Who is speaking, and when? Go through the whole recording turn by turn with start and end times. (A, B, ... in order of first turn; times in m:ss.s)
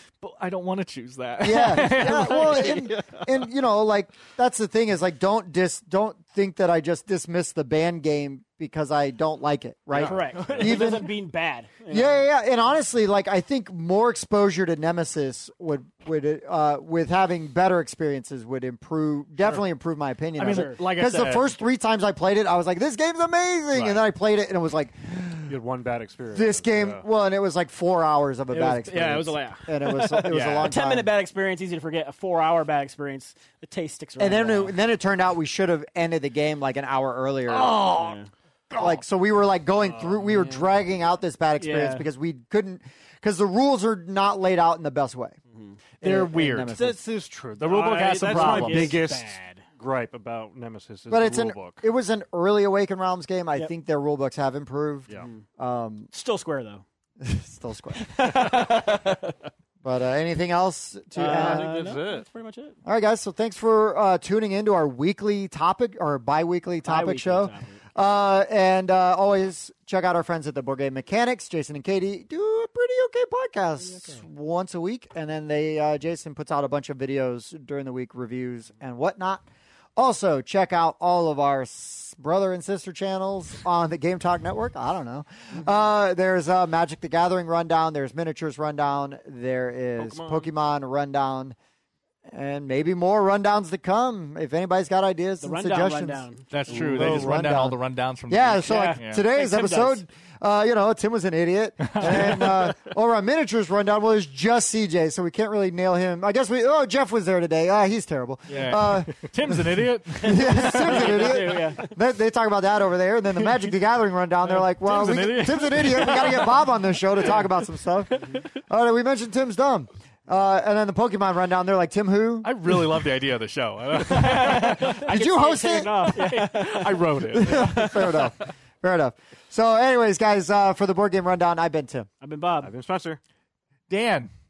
0:00.2-0:03.2 A
0:01.4-0:11.1 B
0:09.9-0:10.8 C
0:10.0-0:12.2 D
0:10.4-0:10.9 A
0:11.9-0:25.6 B
0:20.4-0:21.5 A
0:20.4-0:20.8 D
0:23.7-0:24.0 C
0:25.4-0:27.0 C
0:26.3-0:31.1 B
0:28.5-0:34.8 D
0:30.3-0:30.8 A
0:34.2-0:37.9 B
0:37.5-0:38.2 A
0:37.8-0:38.3 D
0:38.7-0:39.0 A
0:38.8-0:45.4 B
0:39.8-0:40.7 C
0:41.6-0:42.1 D
0:45.5-0:45.8 D
0:46.0-0:46.8 A
0:46.0-0:47.0 B
0:46.7-0:51.8 C
0:47.6-0:49.0 A
0:48.3-0:49.6 D
0:51.1-0:56.1 B
0:55.1-0:55.4 D
0:56.1-0:56.8 D
0:57.2-0:58.4 B
0:58.0-0:59.3 D
0:59.8-1:01.8 B
1:01.1-1:02.8 D
1:01.3-1:02.2 C
1:02.8-1:19.4 B
1:06.8-1:07.8 D
1:13.8-1:14.2 D
1:20.0-1:31.6 B
1:30.0-1:30.5 C
1:32.3-1:37.8 B
1:35.4-1:37.4 D
1:36.5-1:39.2 A
1:38.3-2:02.5 B
1:38.6-1:40.0 D
1:41.8-1:42.7 A
1:48.5-1:51.2 A
1:50.2-1:52.0 D
1:53.4-1:53.6 A
1:54.4-1:56.6 A
2:02.4-2:05.1 A
2:04.0-2:08.3 D
2:04.8-2:06.4 B
2:06.1-2:08.1 A
2:07.3-2:12.1 B
2:12.2-2:12.7 D
2:12.6-2:13.2 C
2:13.9-2:14.3 A